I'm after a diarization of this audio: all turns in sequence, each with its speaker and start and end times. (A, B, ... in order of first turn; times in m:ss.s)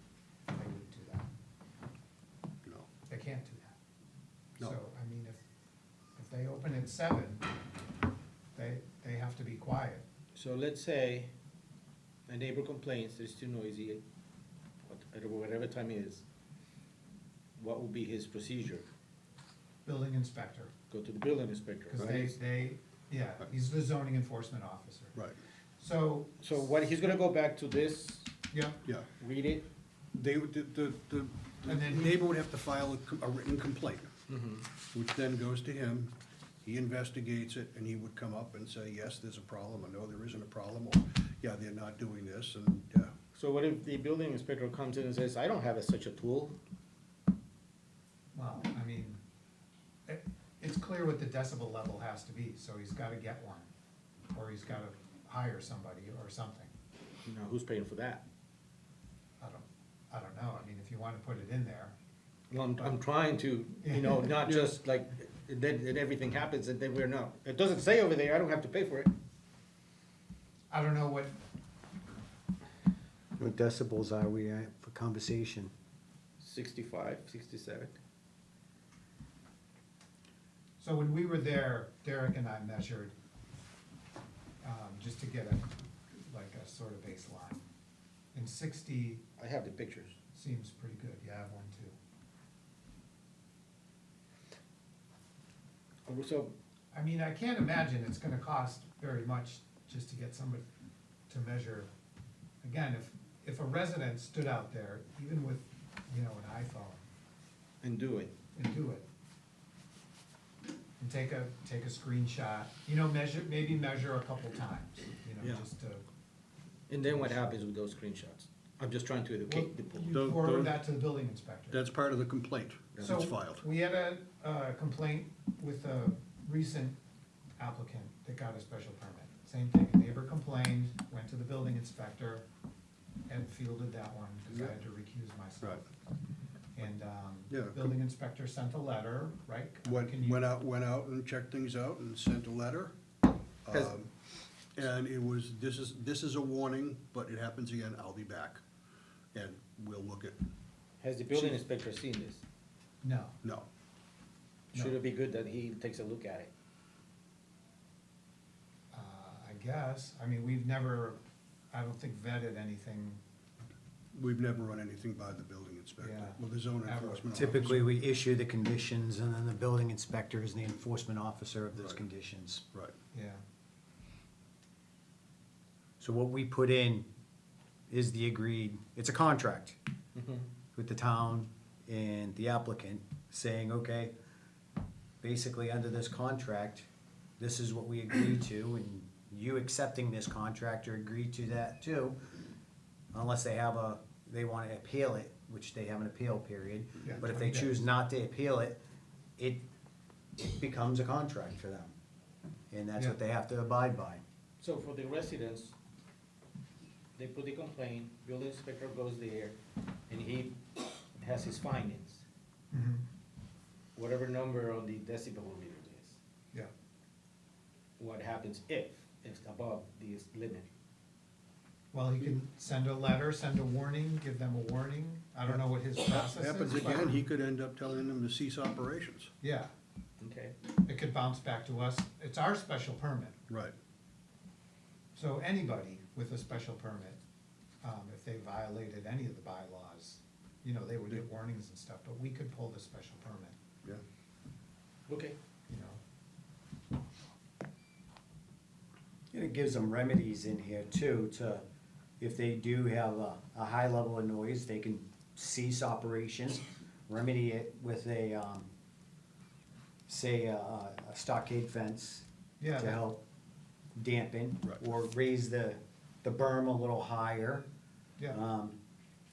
0:00.5-0:01.3 A
0:03.1-0:03.8 A
0:04.6-0:05.4 A
0:06.2-0:07.5 A
0:08.5-0:10.0 A
0:10.3-0:11.3 B
0:12.3-0:14.0 B
0:14.9-0:16.2 B
0:17.6-0:18.8 B
0:19.8-0:20.7 A
0:20.9-0:22.3 B
0:21.9-0:25.2 A
0:25.8-0:26.4 A
0:26.4-0:28.3 B
0:28.5-0:28.8 A
0:29.2-0:29.6 B
0:30.1-0:34.1 C
0:31.6-0:32.1 A
0:34.3-0:34.6 B
0:34.9-0:43.1 C
0:43.3-0:46.6 B
0:48.3-0:49.2 A
0:50.1-0:53.7 A
0:54.3-0:56.7 A
0:57.2-0:58.2 B
0:59.4-1:01.9 A
1:02.5-1:09.1 B
1:03.8-1:04.3 A
1:04.5-1:04.7 C
1:10.7-1:11.4 A
1:13.4-1:15.7 D
1:16.4-1:18.0 B
1:20.8-1:23.1 A
1:24.6-1:27.6 A
1:28.3-1:29.2 A
1:29.4-1:30.1 B
1:30.3-1:32.0 A
1:36.0-1:36.5 B
1:36.9-1:40.6 A
1:41.3-1:41.9 A
1:42.6-1:47.0 A
1:47.8-1:48.3 B
1:48.5-1:49.0 A
1:51.0-1:56.0 A
1:56.9-2:00.7 B
1:59.5-2:01.8 A
2:00.1-2:00.7 C
2:01.7-2:03.6 C
2:03.0-2:07.0 A
2:07.6-2:12.4 A
2:13.3-2:15.8 A
2:16.7-2:20.5 A
2:17.5-2:17.9 C
2:19.8-2:22.9 C
2:23.6-2:24.1 C
2:24.8-2:28.6 C
2:29.3-2:30.4 C
2:31.0-2:32.4 B
2:33.0-2:33.4 A
2:34.7-2:36.5 B
2:38.9-2:41.2 A
2:41.7-2:43.2 A
2:44.1-2:47.8 C
2:46.0-2:47.8 A
2:47.3-2:52.6 D
2:53.1-2:53.4 A
2:56.0-2:57.0 D
2:57.9-2:59.8 D
3:00.2-3:00.5 B
3:00.7-3:04.1 D
3:05.2-3:06.9 D
3:07.4-3:12.2 D
3:13.1-3:18.8 D
3:17.0-3:17.8 A
3:19.4-3:19.6 D
3:20.4-3:21.9 D
3:22.7-3:24.2 D
3:24.6-3:25.7 B
3:27.2-3:29.6 B
3:30.1-3:32.2 B
3:32.7-3:33.0 A
3:34.0-3:36.2 B
3:38.0-3:40.7 B
3:41.9-3:47.2 A
3:45.5-3:49.3 C
3:49.4-3:49.7 A
3:50.2-3:50.6 B
3:50.8-3:53.4 A
3:53.5-3:53.7 C
3:55.1-3:57.2 A
3:57.8-4:03.5 A
4:05.1-4:05.4 B
4:05.7-4:06.0 A
4:09.3-4:11.6 D
4:12.2-4:18.7 D
4:20.1-4:22.2 D
4:22.6-4:23.0 A
4:22.8-4:23.2 D
4:23.9-4:27.6 D
4:28.3-4:28.8 D